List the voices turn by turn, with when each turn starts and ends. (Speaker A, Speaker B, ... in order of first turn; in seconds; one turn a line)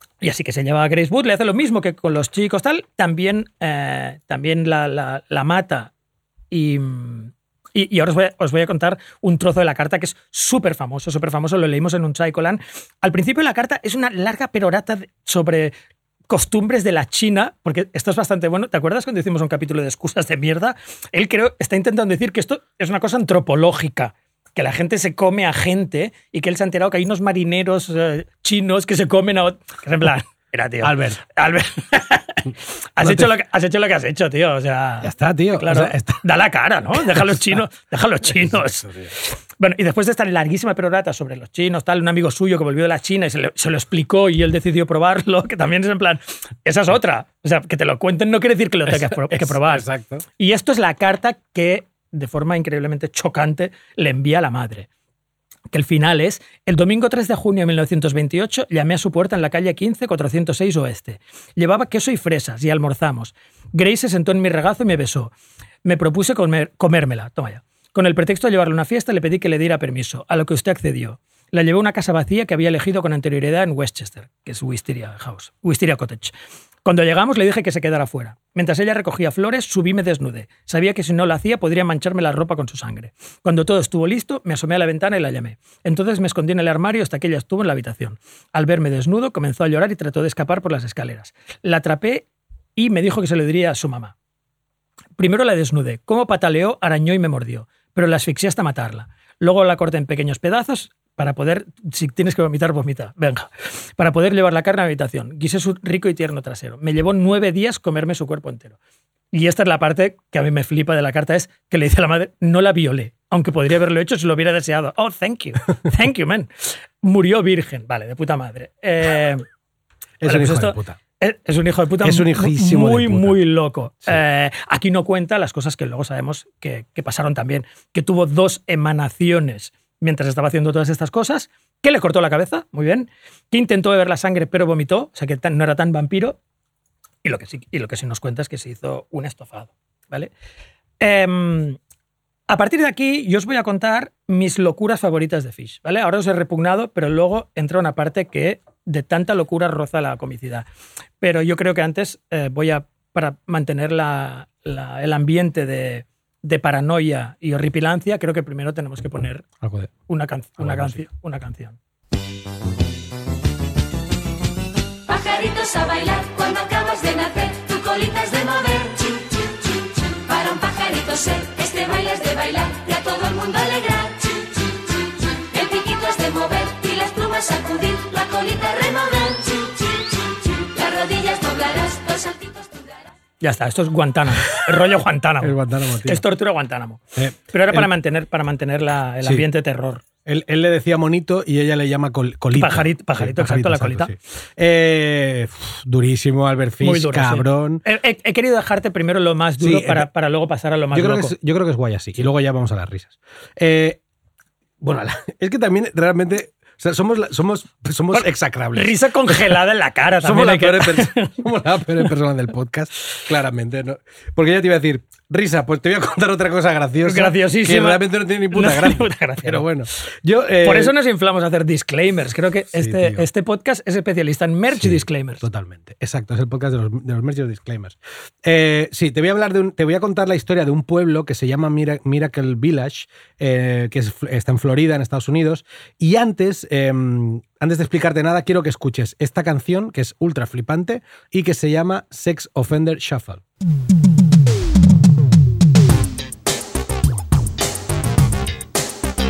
Speaker A: 0.2-5.9
Speaker A: 6.5-15.7
Speaker A: 16.3-49.9
Speaker B: 30.8-31.2
Speaker B: 33.0-33.3
Speaker B: 35.0-36.2
Speaker B: 37.1-37.4
Speaker B: 38.3-39.1
Speaker B: 48.9-50.2
Speaker A: 50.4-54.9
Speaker A: 55.7-65.3
Speaker A: 65.8-76.3
Speaker A: 76.8-94.1
Speaker A: 95.2-108.8
Speaker A: 109.3-119.4
Speaker B: 120.2-121.0
Speaker A: 120.2-136.4
Speaker B: 122.0-123.4
Speaker A: 137.2-140.3
Speaker A: 141.0-141.8
Speaker A: 142.5-150.7
Speaker A: 151.2-159.4
Speaker B: 159.6-159.9
Speaker A: 160.1-161.8
Speaker B: 160.6-161.0
Speaker C: 165.1-183.1
Speaker A: 183.4-190.0
Speaker B: 185.4-186.2
Speaker B: 187.2-187.9
Speaker B: 190.2-197.8
Speaker A: 192.5-194.1
Speaker A: 196.8-201.3
Speaker B: 199.6-200.1
Speaker B: 200.9-204.0
Speaker B: 204.8-209.5
Speaker A: 208.1-211.4
Speaker B: 210.2-220.9
Speaker A: 217.0-219.7
Speaker A: 220.6-225.4
Speaker B: 222.7-223.2
Speaker B: 224.7-243.4